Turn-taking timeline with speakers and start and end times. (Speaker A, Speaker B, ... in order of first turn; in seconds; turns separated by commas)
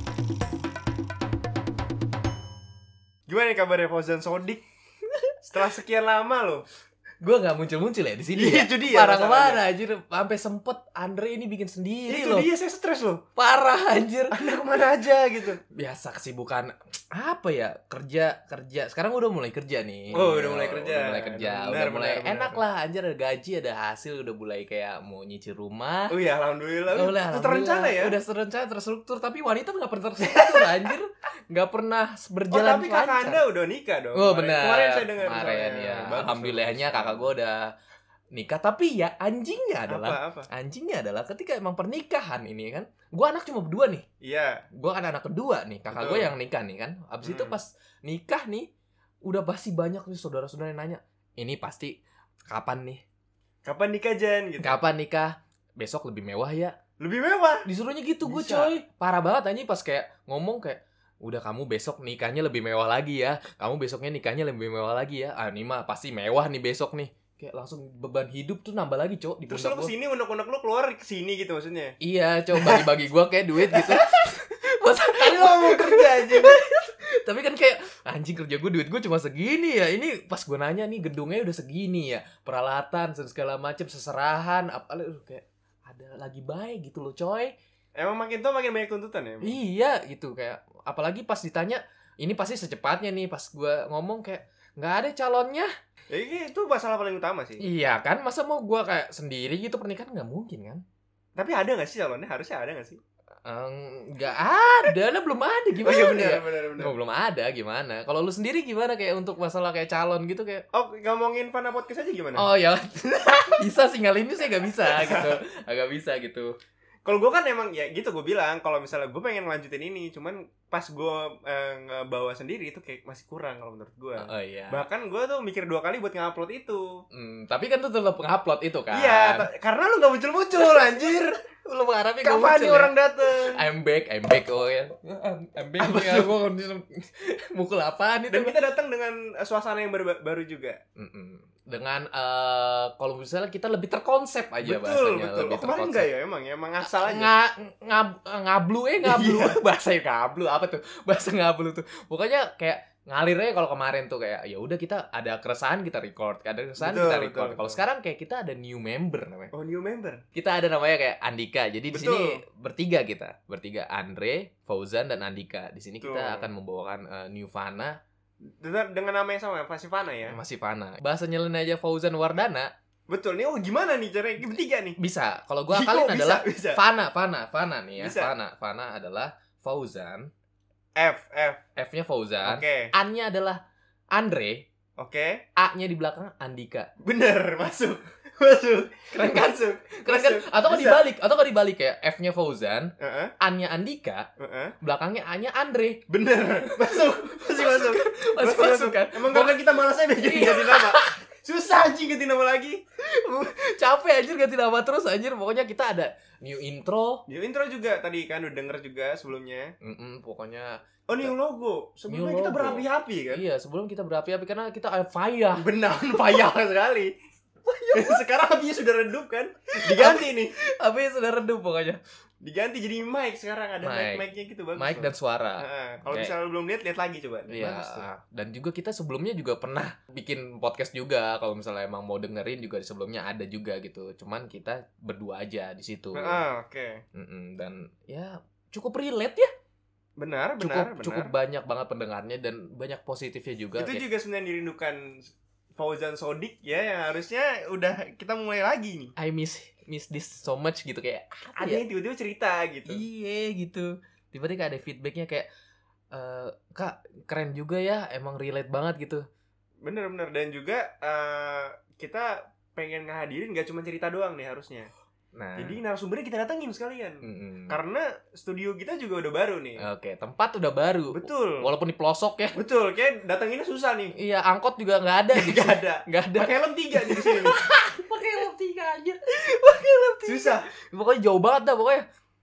Speaker A: 3.3-4.6, Speaker A: 5.4-6.6, Speaker B: 7.2-12.5, Speaker A: 8.3-9.6, Speaker A: 12.1-13.2, Speaker B: 13.4-14.3, Speaker A: 14.3-15.6, Speaker B: 15.7-26.2, Speaker A: 20.1-22.6, Speaker A: 26.1-28.2, Speaker B: 26.9-33.4, Speaker A: 30.3-30.9, Speaker A: 32.5-37.3, Speaker B: 34.1-37.7, Speaker B: 38.3-44.0, Speaker A: 39.9-40.5, Speaker A: 44.2-44.6, Speaker B: 44.8-48.7, Speaker A: 45.9-46.3, Speaker A: 47.2-47.5, Speaker B: 49.2-52.0, Speaker B: 52.5-53.0, Speaker A: 53.6-54.8, Speaker B: 54.6-56.7, Speaker A: 57.0-57.6, Speaker B: 57.6-69.9, Speaker A: 58.2-58.7, Speaker A: 69.5-71.9, Speaker B: 72.0-87.5, Speaker A: 72.5-72.9, Speaker A: 73.7-74.2, Speaker A: 75.2-76.6, Speaker A: 88.0-89.5, Speaker B: 89.4-95.7, Speaker A: 96.1-97.6, Speaker B: 97.6-100.8, Speaker A: 101.3-103.0, Speaker B: 103.4-110.6, Speaker A: 105.8-106.9, Speaker A: 110.7-112.5, Speaker B: 112.3-116.5, Speaker A: 115.0-115.3, Speaker A: 117.0-127.0, Speaker B: 124.2-124.8, Speaker B: 127.1-129.5, Speaker A: 128.9-131.4, Speaker B: 131.6-138.5, Speaker A: 132.2-133.6, Speaker A: 135.8-136.3, Speaker A: 138.3-140.8, Speaker B: 141.0-146.1, Speaker A: 144.6-147.3, Speaker B: 146.8-159.5, Speaker A: 149.0-149.6, Speaker A: 156.8-157.8, Speaker A: 159.5-160.2, Speaker B: 160.3-167.9, Speaker A: 161.9-162.4, Speaker A: 166.0-166.5, Speaker A: 168.6-170.4, Speaker B: 170.3-172.7, Speaker A: 173.1-175.0, Speaker B: 175.0-180.3, Speaker A: 175.7-176.8, Speaker A: 178.0-178.3, Speaker A: 180.9-181.6, Speaker B: 181.8-183.6, Speaker A: 182.4-182.9, Speaker B: 184.1-184.7, Speaker A: 185.0-185.4, Speaker B: 185.6-186.9, Speaker A: 187.0-191.0, Speaker B: 189.1-194.3, Speaker A: 193.0-193.3, Speaker A: 194.4-194.7, Speaker B: 194.8-196.0, Speaker A: 196.1-202.8, Speaker B: 196.9-199.6, Speaker B: 200.2-201.2, Speaker B: 203.1-207.2, Speaker A: 207.3-209.7, Speaker B: 209.8-211.3, Speaker A: 211.1-213.4, Speaker B: 212.1-215.7, Speaker A: 215.6-217.1, Speaker B: 217.7-218.2, Speaker A: 217.9-220.5, Speaker B: 219.8-222.0, Speaker A: 222.4-228.0, Speaker B: 223.8-226.3, Speaker B: 227.5-236.4, Speaker A: 236.1-237.0, Speaker B: 237.1-239.5, Speaker A: 240.2-241.3, Speaker B: 240.6-244.0, Speaker A: 243.8-249.1, Speaker B: 249.2-251.8, Speaker A: 251.6-253.0, Speaker B: 252.9-255.5, Speaker B: 256.1-259.2, Speaker A: 259.8-264.9, Speaker B: 265.3-265.8, Speaker A: 265.6-269.8, Speaker B: 267.2-267.8, Speaker B: 269.8-272.6, Speaker A: 271.1-271.6, Speaker A: 272.5-274.1, Speaker B: 274.2-282.0, Speaker A: 275.3-277.6, Speaker A: 280.3-280.7